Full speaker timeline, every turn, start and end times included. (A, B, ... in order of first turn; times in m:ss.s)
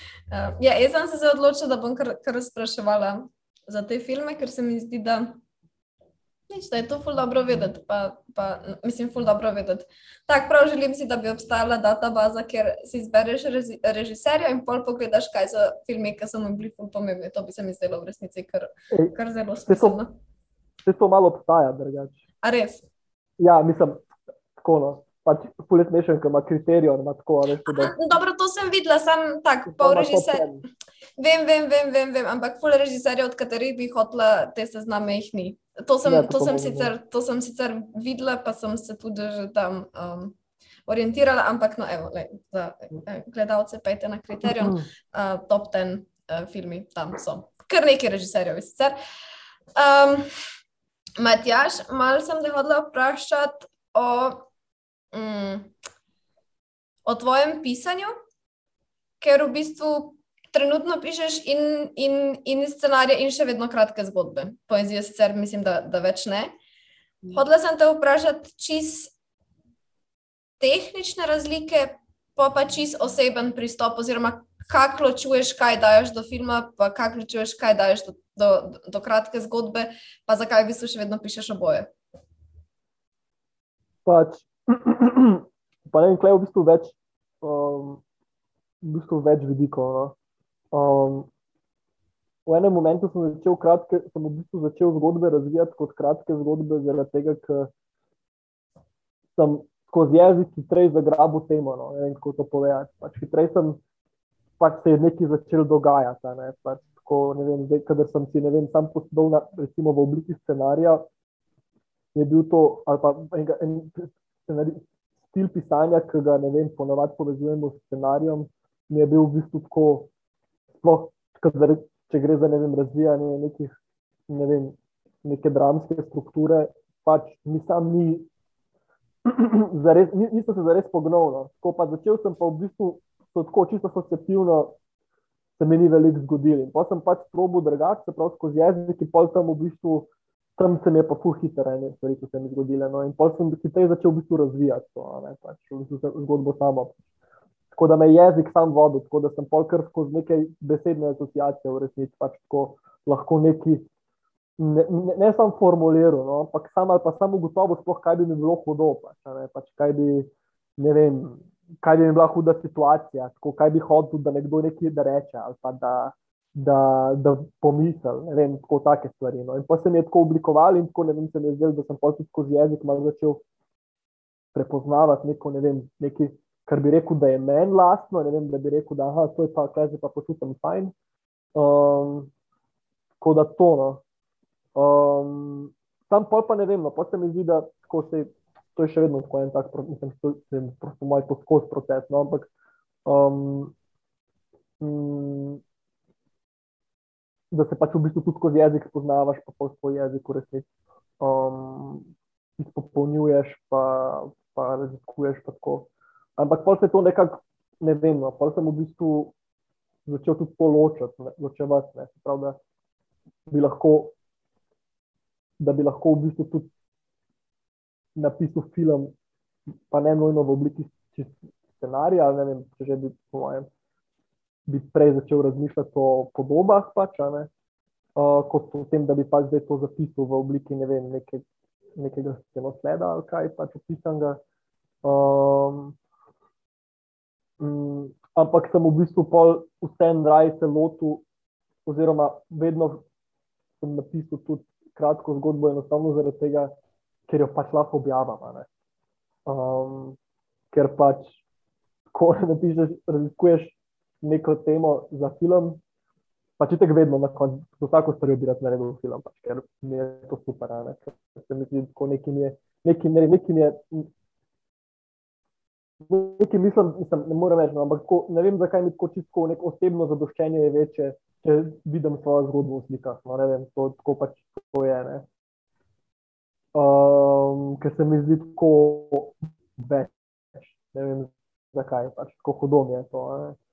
0:00.3-0:05.4 A
0:06.5-0:20.1 A
0:19.7-0:20.0 B
0:20.8-0:22.2 B
0:22.4-0:22.9 A
0:23.4-0:24.0 B
0:24.6-0:28.0 B
0:27.7-0:30.5 A
0:29.7-0:30.6 B
0:31.2-0:40.4 A
0:36.0-0:36.9 B
0:40.9-0:49.0 A
0:44.5-0:44.8 B
0:49.8-0:50.3 A
0:51.2-0:54.5 A
0:55.1-0:55.7 A
0:57.0-0:58.1 A
0:59.2-1:06.6 A
1:07.3-1:09.1 A
1:10.6-1:21.9 A
1:24.1-1:28.0 B
1:28.8-1:30.2 B
1:30.7-1:31.3 B
1:32.5-1:37.7 B
1:39.4-1:43.8 B
1:44.6-1:51.0 B
1:52.2-2:00.1 B
2:00.8-2:03.7 B
2:04.3-2:08.3 B
2:09.2-2:14.7 B
2:15.6-2:27.0 B
2:27.7-2:33.8 B
2:34.6-2:53.4 B
2:54.5-3:00.9 B
3:01.6-3:02.3 B
3:03.2-3:04.0 B
3:04.8-3:12.5 B
3:13.1-3:13.7 B
3:14.8-3:15.6 B
3:17.5-3:20.6 B
3:21.2-3:22.1 B
3:22.6-3:25.9 B
3:26.4-3:29.3 B
3:30.1-3:32.6 B
3:33.5-3:34.1 B
3:35.6-3:36.7 B
3:38.2-3:39.1 B
3:39.9-3:43.7 B
3:44.7-3:47.5 B
3:48.2-3:51.4 B
3:52.0-3:54.4 B
3:55.0-3:56.0 B
3:57.6-4:01.2 B
4:01.9-4:03.0 B
4:03.8-4:06.7 B
4:07.3-4:08.7 B
4:09.5-4:10.2 B
4:10.7-4:11.4 B
4:12.1-4:15.8 B
4:16.6-4:24.1 B
4:26.1-4:35.2 B
4:36.7-4:43.6 B